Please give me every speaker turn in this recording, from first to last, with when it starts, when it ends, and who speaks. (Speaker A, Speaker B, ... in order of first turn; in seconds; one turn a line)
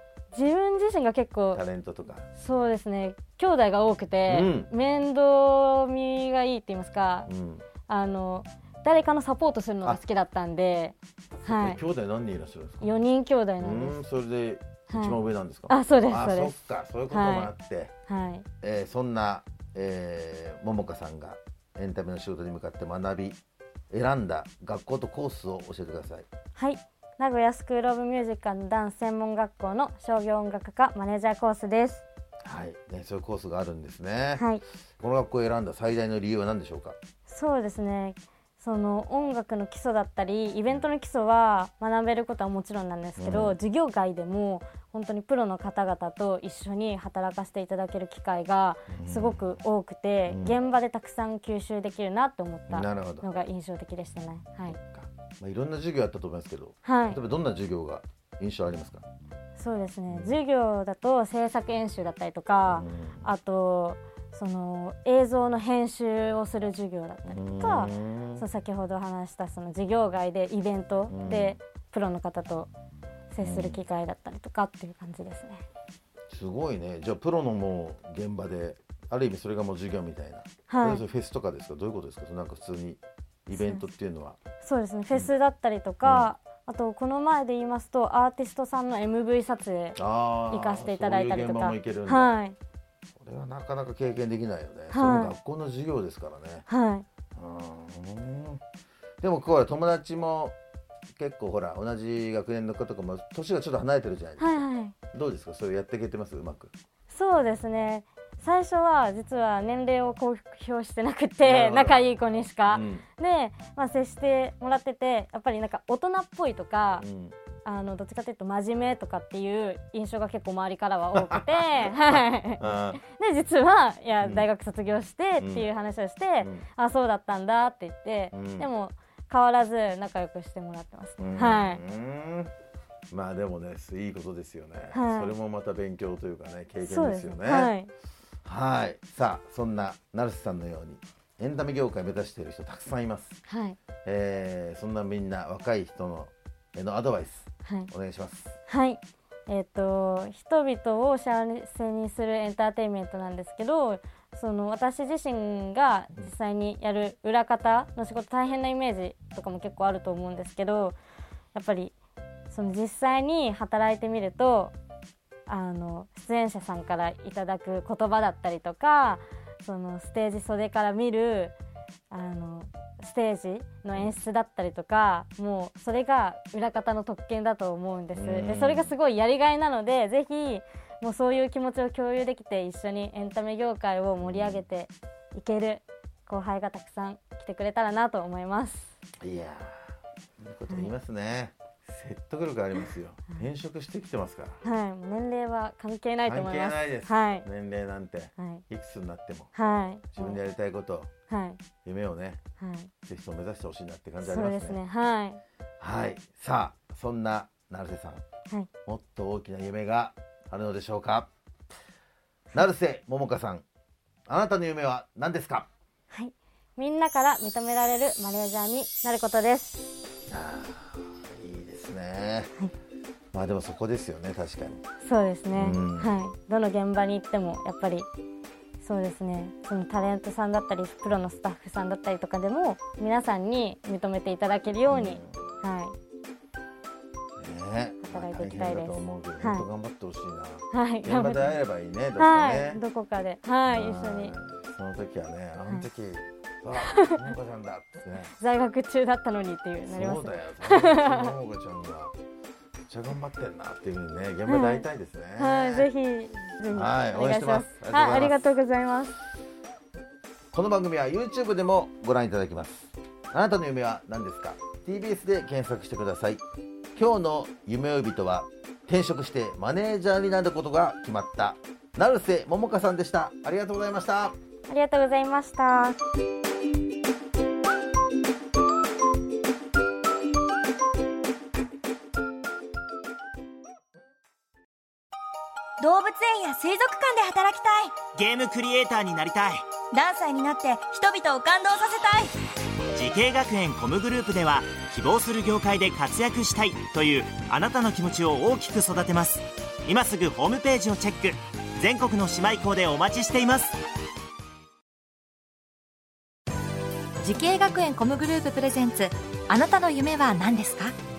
Speaker A: 0.3-1.6
Speaker B: 1.5-2.3
Speaker A: 2.3-7.3
Speaker B: 4.3-4.7
Speaker B: 7.3-7.7
Speaker A: 7.9-11.8
Speaker B: 11.4-13.0
Speaker A: 12.8-14.0
Speaker B: 13.6-17.9
Speaker A: 14.9-16.5
Speaker A: 17.1-17.5
Speaker A: 18.1-18.5
Speaker B: 18.6-23.4
Speaker B: 23.9-26.3
Speaker A: 26.6-32.0
Speaker B: 32.4-34.5
Speaker A: 34.4-34.6
Speaker B: 35.0-37.0
Speaker A: 37.3-54.8
Speaker B: 43.2-43.6
Speaker B: 48.9-49.5
Speaker B: 50.3-50.6
Speaker B: 52.7-53.3
Speaker B: 54.7-59.0
Speaker A: 56.8-57.2
Speaker A: 59.6-72.7
Speaker B: 60.1-60.4
Speaker B: 62.7-63.3
Speaker B: 67.3-68.5
Speaker B: 71.1-71.6
Speaker A: 73.3-75.6
Speaker B: 73.4-73.8
Speaker B: 76.3-84.4
Speaker A: 80.7-81.0
Speaker A: 83.5-83.9
Speaker A: 84.6-92.6
Speaker B: 86.0-86.3
Speaker B: 90.0-92.4
Speaker B: 93.2-96.7
Speaker A: 94.9-95.3
Speaker A: 96.7-97.1
Speaker B: 97.3-98.6
Speaker B: 99.2-100.5
Speaker B: 101.2-106.7
Speaker A: 104.4-104.9
Speaker A: 107.1-117.1
Speaker B: 111.4-112.0
Speaker B: 112.7-113.1
Speaker B: 117.0-117.4
Speaker A: 117.7-131.8
Speaker B: 121.2-123.0
Speaker B: 124.2-124.5
Speaker B: 125.4-125.7
Speaker B: 126.4-126.7
Speaker B: 128.3-128.7
Speaker B: 131.2-132.5
Speaker B: 133.1-137.8
Speaker A: 134.9-135.3
Speaker A: 136.8-137.9
Speaker B: 138.4-143.4
Speaker A: 143.5-143.8
Speaker B: 144.0-148.6
Speaker A: 148.7-161.0
Speaker A: 161.5-161.9
Speaker A: 162.5-164.7
Speaker A: 165.5-171.6
Speaker A: 172.1-188.9
Speaker B: 178.1-178.9
Speaker B: 184.2-184.6
Speaker B: 189.2-194.6
Speaker A: 194.6-197.5
Speaker B: 196.2-199.6
Speaker A: 198.4-198.6
Speaker A: 199.5-200.4
Speaker B: 200.1-201.1
Speaker A: 201.3-201.6
Speaker B: 201.8-202.4
Speaker A: 202.6-202.9
Speaker B: 203.1-204.8
Speaker A: 204.2-205.4
Speaker B: 205.8-208.2
Speaker B: 208.9-211.3
Speaker B: 212.5-213.6
Speaker B: 214.3-215.7
Speaker A: 216.1-219.9
Speaker B: 220.3-222.5
Speaker B: 223.3-224.8
Speaker A: 225.0-228.1
Speaker B: 225.5-226.2
Speaker A: 228.8-235.9
Speaker B: 234.9-235.5
Speaker B: 237.4-242.8
Speaker A: 238.1-239.7
Speaker A: 240.7-241.6
Speaker A: 242.2-244.3
Speaker B: 243.7-248.3
Speaker A: 246.8-247.3
Speaker A: 248.3-251.4
Speaker B: 249.9-252.1
Speaker B: 252.9-255.9
Speaker A: 254.5-259.2
Speaker B: 256.7-258.4
Speaker B: 260.5-266.4
Speaker B: 266.9-274.4
Speaker A: 274.7-276.0
Speaker C: 285.8-288.0
Speaker D: 288.1-289.7
Speaker C: 289.9-292.3
Speaker D: 292.9-303.8
Speaker E: 307.2-310.9